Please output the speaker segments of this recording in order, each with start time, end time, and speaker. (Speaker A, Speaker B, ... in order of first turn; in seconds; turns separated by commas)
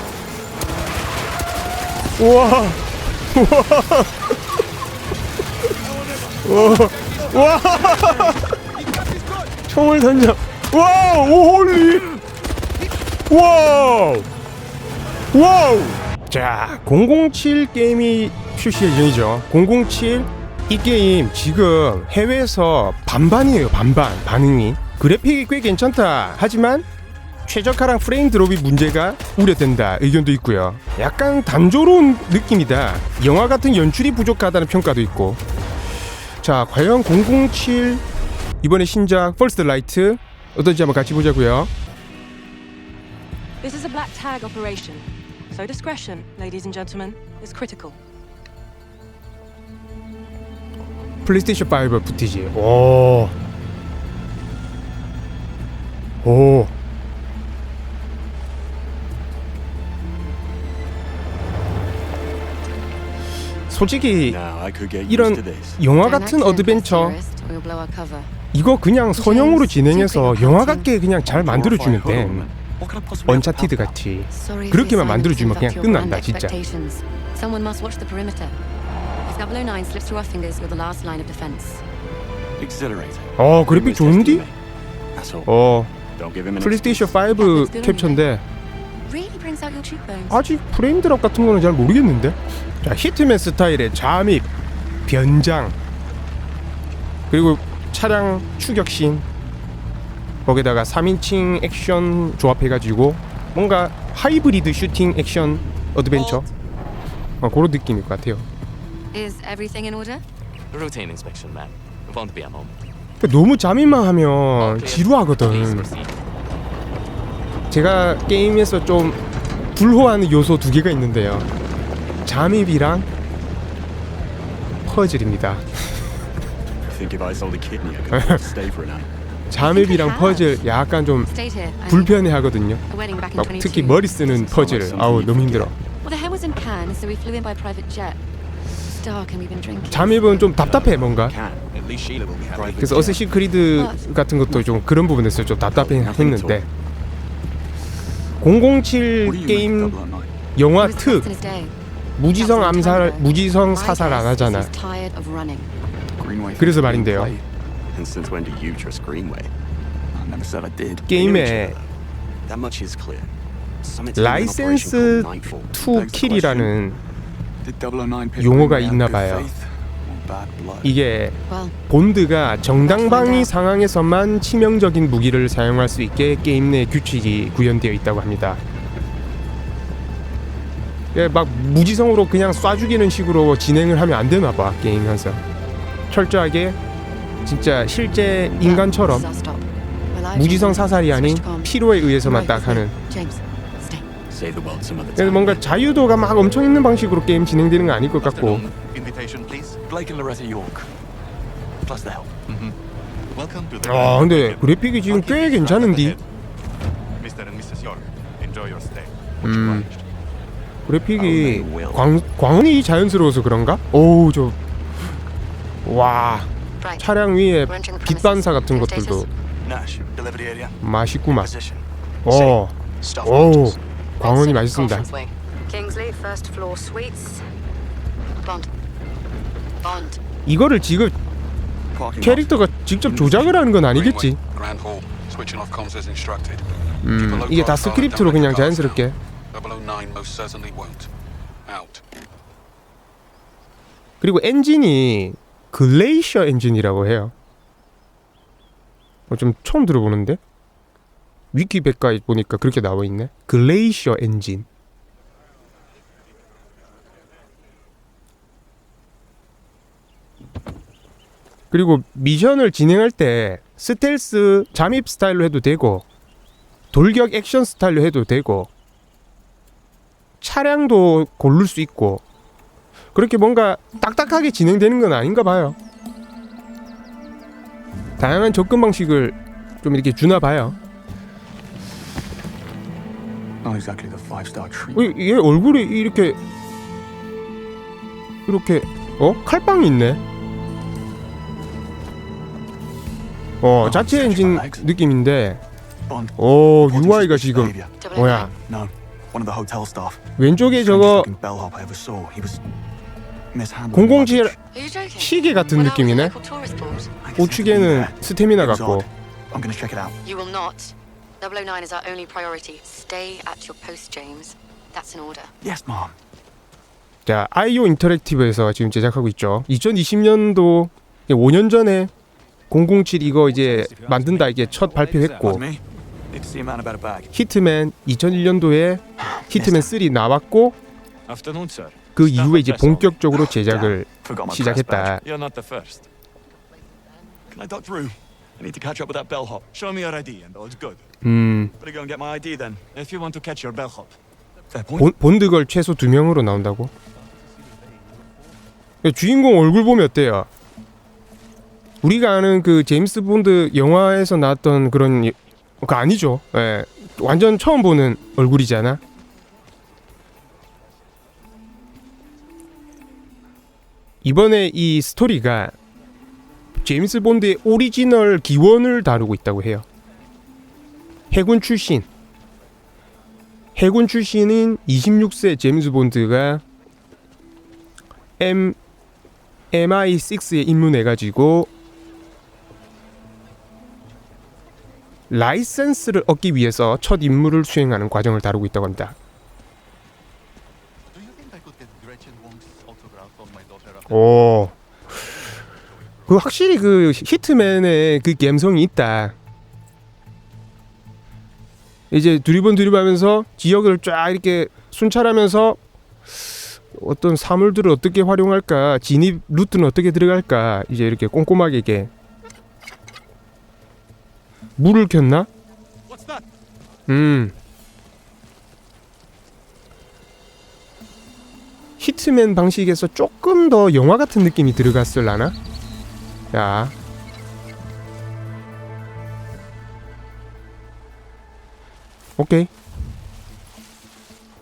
Speaker A: 2.2-4.2, Speaker A: 6.4-8.5, Speaker A: 9.7-12.1, Speaker A: 13.3-14.3, Speaker A: 15.3-26.9, Speaker A: 27.5-35.4, Speaker A: 36.4-38.0, Speaker A: 38.6-41.7, Speaker B: 43.6-48.0, Speaker A: 51.2-53.3, Speaker A: 56.2-56.7, Speaker A: 63.7-64.4, Speaker C: 64.2-65.8, Speaker A: 65.1-67.2, Speaker D: 65.9-68.3, Speaker A: 68.5-72.5, Speaker D: 69.2-70.9, Speaker E: 71.3-74.0, Speaker A: 73.3-76.5, Speaker D: 74.3-78.6, Speaker D: 79.3-81.8, Speaker C: 82.6-84.5, Speaker E: 82.6-83.2, Speaker A: 83.4-84.4, Speaker C: 85.2-85.5, Speaker A: 85.5-85.9, Speaker C: 86.2-87.2, Speaker A: 86.6-88.4, Speaker D: 87.3-88.2, Speaker D: 89.0-90.4, Speaker A: 90.3-94.5, Speaker A: 95.1-95.8, Speaker A: 97.3-99.2, Speaker A: 100.5-106.5, Speaker A: 107.4-108.5, Speaker D: 109.1-110.2, Speaker F: 110.7-112.7, Speaker A: 113.2-115.9, Speaker F: 114.6-116.1, Speaker A: 117.7-119.2, Speaker A: 119.8-121.5, Speaker A: 122.3-123.1, Speaker A: 124.9-125.7, Speaker C: 126.9-129.1, Speaker A: 128.1-128.4, Speaker A: 129.5-131.3, Speaker D: 129.6-130.6, Speaker D: 131.3-132.2, Speaker A: 131.9-132.8, Speaker D: 132.9-135.3, Speaker A: 133.3-135.8, Speaker C: 134.5-135.7, Speaker D: 136.0-138.2, Speaker D: 139.0-140.5, Speaker A: 139.9-141.3, Speaker C: 140.1-143.3, Speaker A: 142.8-146.7, Speaker D: 143.8-144.0, Speaker C: 145.7-146.7, Speaker A: 148.4-150.0, Speaker E: 149.2-150.3, Speaker A: 150.6-151.3, Speaker D: 150.8-151.8, Speaker A: 152.2-154.7, Speaker D: 152.3-155.7, Speaker E: 156.2-157.3, Speaker A: 156.6-157.3, Speaker C: 156.8-157.4, Speaker C: 157.9-159.5, Speaker E: 160.1-161.5, Speaker A: 161.1-161.8, Speaker C: 161.2-161.8, Speaker C: 162.5-163.3, Speaker C: 163.8-165.8, Speaker A: 164.2-167.0, Speaker E: 165.8-166.7, Speaker E: 167.6-170.9, Speaker A: 168.4-169.5, Speaker A: 170.8-171.4, Speaker D: 171.5-171.8, Speaker A: 171.9-178.6, Speaker D: 172.8-173.5, Speaker A: 181.1-185.4, Speaker A: 186.1-186.8, Speaker A: 187.5-189.3, Speaker D: 188.6-194.1, Speaker A: 190.3-192.9, Speaker C: 194.3-195.7, Speaker A: 195.2-198.6, Speaker C: 198.2-199.8, Speaker E: 199.9-200.9, Speaker E: 201.8-202.3, Speaker C: 202.5-202.8, Speaker C: 203.3-206.2, Speaker A: 203.8-206.2, Speaker C: 207.2-210.0, Speaker A: 209.4-209.9, Speaker A: 210.9-214.6, Speaker C: 211.2-212.1, Speaker A: 215.9-219.3, Speaker D: 216.8-217.1, Speaker D: 217.6-219.3, Speaker E: 219.6-220.8, Speaker A: 220.8-221.5, Speaker E: 221.4-221.8, Speaker A: 222.2-225.1, Speaker C: 222.4-223.8, Speaker E: 223.1-223.3, Speaker D: 224.2-227.5, Speaker D: 228.4-228.7, Speaker D: 229.8-230.2, Speaker A: 230.5-231.2, Speaker E: 231.9-233.6, Speaker A: 232.2-234.4, Speaker G: 233.8-241.1, Speaker A: 237.0-239.2, Speaker G: 241.7-242.0, Speaker A: 244.2-247.3, Speaker A: 249.3-250.4, Speaker A: 251.5-254.7, Speaker A: 261.7-266.1, Speaker A: 266.9-268.7, Speaker A: 270.4-272.2, Speaker A: 273.1-275.8, Speaker A: 278.2-280.8, Speaker E: 283.6-285.1, Speaker A: 284.9-286.4, Speaker A: 288.5-290.2, Speaker A: 293.6-295.6, Speaker E: 293.8-294.9, Speaker E: 296.1-297.9, Speaker A: 296.4-298.5, Speaker D: 298.0-298.6, Speaker E: 298.6-300.2, Speaker A: 300.4-301.3, Speaker E: 300.8-302.6, Speaker E: 303.5-304.6, Speaker A: 303.9-304.6, Speaker D: 304.7-307.1, Speaker A: 305.2-306.3, Speaker E: 307.2-310.2, Speaker A: 307.4-309.1, Speaker D: 310.2-315.5, Speaker E: 315.6-316.2, Speaker A: 317.3-322.1, Speaker A: 322.7-325.6, Speaker H: 323.4-325.6, Speaker E: 325.4-327.4, Speaker A: 327.3-330.8, Speaker E: 329.2-330.0, Speaker H: 331.3-333.1, Speaker A: 332.2-335.2, Speaker E: 333.3-335.2, Speaker H: 335.2-336.0, Speaker E: 337.5-339.7, Speaker H: 339.7-341.1, Speaker A: 341.2-341.7, Speaker E: 341.8-342.9, Speaker H: 342.9-344.1, Speaker E: 344.7-345.1, Speaker A: 345.0-346.9, Speaker A: 349.0-350.5, Speaker A: 352.0-359.0, Speaker A: 364.2-365.8, Speaker A: 366.8-369.9, Speaker A: 371.3-372.1, Speaker A: 373.8-376.6, Speaker A: 378.4-378.8, Speaker A: 379.7-381.7, Speaker A: 385.3-389.2, Speaker C: 391.1-394.3, Speaker A: 394.1-394.7, Speaker A: 396.3-399.4, Speaker A: 402.1-405.8, Speaker A: 406.9-412.1, Speaker A: 414.8-415.5, Speaker H: 416.1-416.4, Speaker A: 417.1-417.5, Speaker A: 422.0-425.6, Speaker A: 426.5-426.9, Speaker A: 432.4-432.7